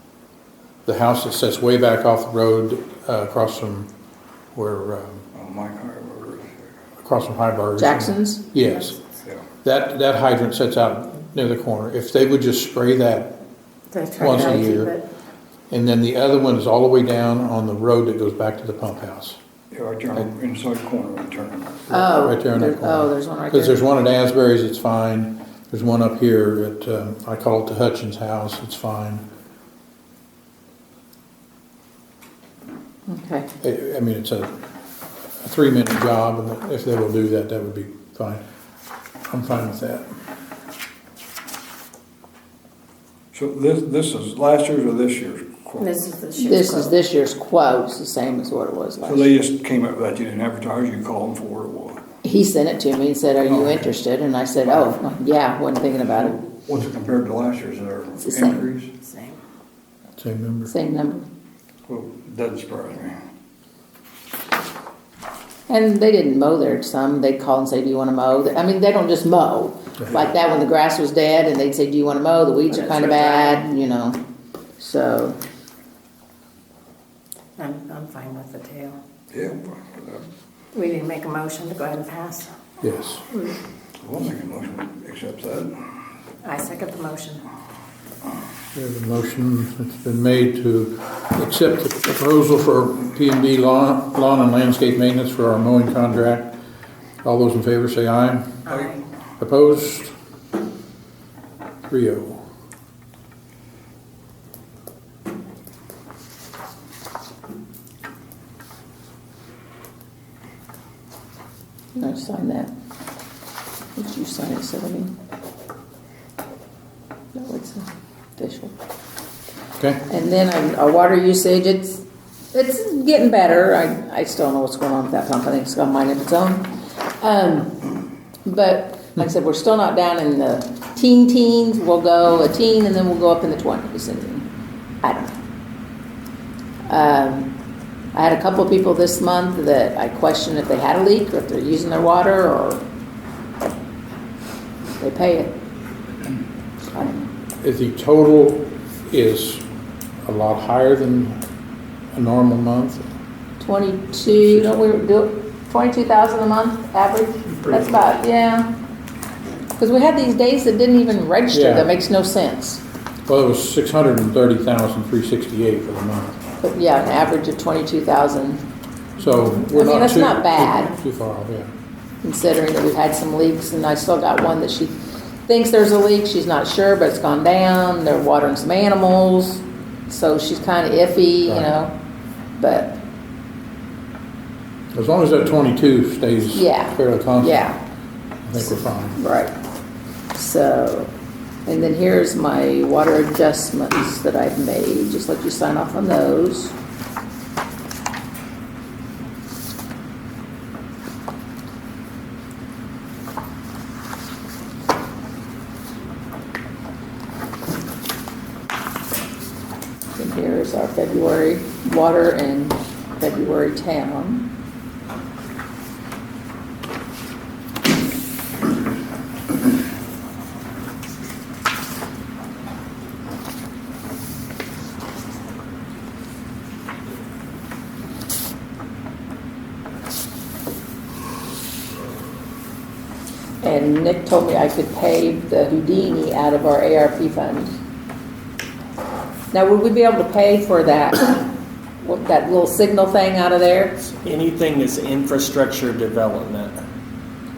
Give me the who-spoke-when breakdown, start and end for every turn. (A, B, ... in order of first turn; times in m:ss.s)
0:00.8-0:03.9 A
0:04.5-0:05.2 A
0:05.3-0:06.7 B
0:07.0-0:09.0 A
0:07.8-0:08.5 C
0:09.6-0:13.3 A
0:13.9-0:15.0 D
0:14.2-0:14.9 A
0:15.7-0:19.4 A
0:19.7-0:21.8 B
0:21.9-0:29.2 A
0:21.9-0:23.8 C
0:33.1-0:33.5 C
0:33.6-0:34.6 A
0:35.4-0:38.4 A
0:39.3-0:40.1 A
0:43.3-0:45.9 B
0:45.8-0:46.9 D
0:46.4-0:49.3 C
0:49.0-0:52.0 B
0:52.2-0:56.4 C
0:53.4-0:53.9 B
0:56.4-0:58.9 B
0:58.2-0:58.6 C
0:59.0-0:59.4 D
1:00.2-1:00.7 A
1:00.7-1:01.3 C
1:01.8-1:03.2 B
1:05.7-1:14.2 C
1:14.8-1:15.4 C
1:17.6-1:19.0 D
1:19.3-1:20.2 B
1:20.7-1:22.5 D
1:22.8-1:23.2 A
1:24.0-1:25.8 B
1:26.4-1:27.4 D
1:28.7-1:36.5 A
1:37.2-1:38.6 A
1:38.7-1:39.0 D
1:39.4-1:40.1 A
1:41.9-1:42.4 A
1:51.9-1:52.7 C
1:54.0-1:55.1 C
1:57.3-1:57.8 C
1:58.4-1:58.7 C
1:59.8-2:00.0 A
2:00.1-2:07.9 C
2:08.4-2:14.4 C
2:15.0-2:15.3 C
2:16.9-2:17.5 C
2:18.1-2:22.8 C
2:25.0-2:25.5 C
2:26.9-2:27.2 C
2:27.6-2:29.6 A
2:30.2-2:31.4 A
2:32.1-2:33.1 A
2:33.6-2:38.7 C
2:34.3-2:34.8 A
2:39.8-2:42.8 C
2:41.5-2:41.9 A
2:43.3-2:46.4 A
2:46.6-2:48.6 C
2:49.2-2:51.7 A
2:49.5-2:50.9 C
2:52.2-3:01.9 C
3:02.6-3:03.0 C
3:04.9-3:07.6 A
3:06.5-3:07.8 C
3:08.4-3:09.2 A
3:08.6-3:09.5 C
3:10.3-3:11.1 C
3:11.6-3:16.7 C
3:30.2-3:34.5 C
3:53.6-3:57.8 C
3:59.5-4:01.5 C
4:02.0-4:03.9 C
4:04.0-4:06.8 E